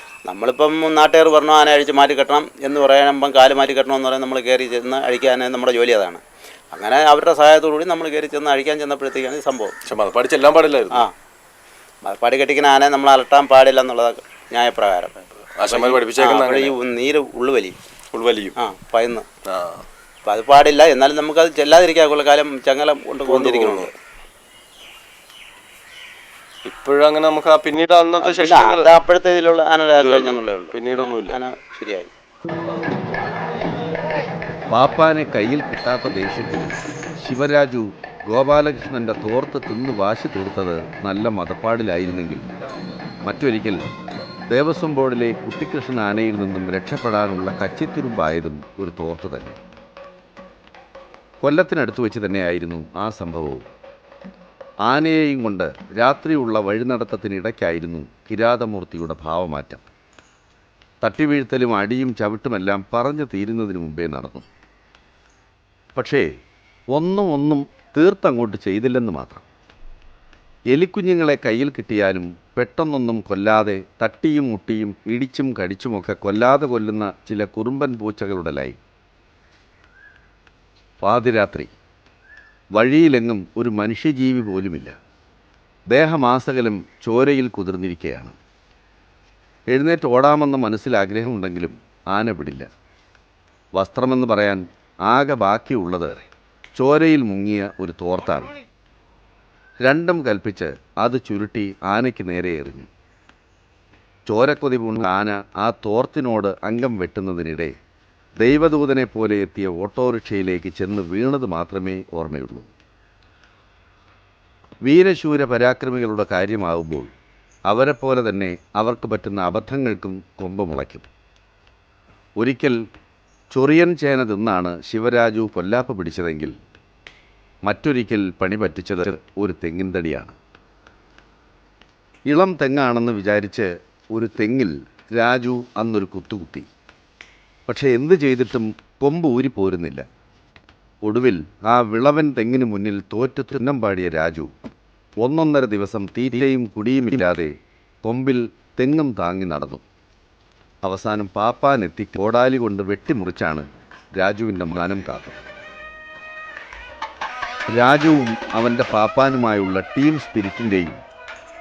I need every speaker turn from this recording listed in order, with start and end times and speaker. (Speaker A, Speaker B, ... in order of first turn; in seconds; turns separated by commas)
Speaker A: 0.2-9.7, Speaker B: 9.8-11.1, Speaker A: 12.0-17.8, Speaker B: 15.6-16.8, Speaker B: 18.1-18.5, Speaker A: 18.6-19.2, Speaker B: 19.4-19.8, Speaker A: 20.2-23.9, Speaker B: 23.2-23.9, Speaker B: 26.6-28.9, Speaker A: 28.2-30.8, Speaker B: 30.0-31.4, Speaker A: 31.3-32.1, Speaker C: 34.7-42.5, Speaker C: 43.2-43.9, Speaker C: 44.5-49.6, Speaker C: 51.4-53.7, Speaker C: 54.8-59.9, Speaker C: 61.0-64.4, Speaker C: 65.9-66.3, Speaker C: 66.9-69.4, Speaker C: 70.7-78.8, Speaker C: 81.0-81.7, Speaker C: 82.7-84.9, Speaker C: 85.9-88.3, Speaker C: 89.7-92.7, Speaker C: 93.7-96.2, Speaker C: 96.8-98.5, Speaker C: 99.8-102.9, Speaker C: 104.2-107.8, Speaker C: 108.4-112.7, Speaker C: 114.8-117.1, Speaker C: 117.7-121.1, Speaker C: 122.4-122.8, Speaker C: 123.5-126.5, Speaker C: 127.6-130.3, Speaker C: 132.3-136.7, Speaker C: 137.7-140.1, Speaker C: 141.0-144.5, Speaker C: 145.2-149.8, Speaker C: 150.8-155.4, Speaker C: 157.7-161.0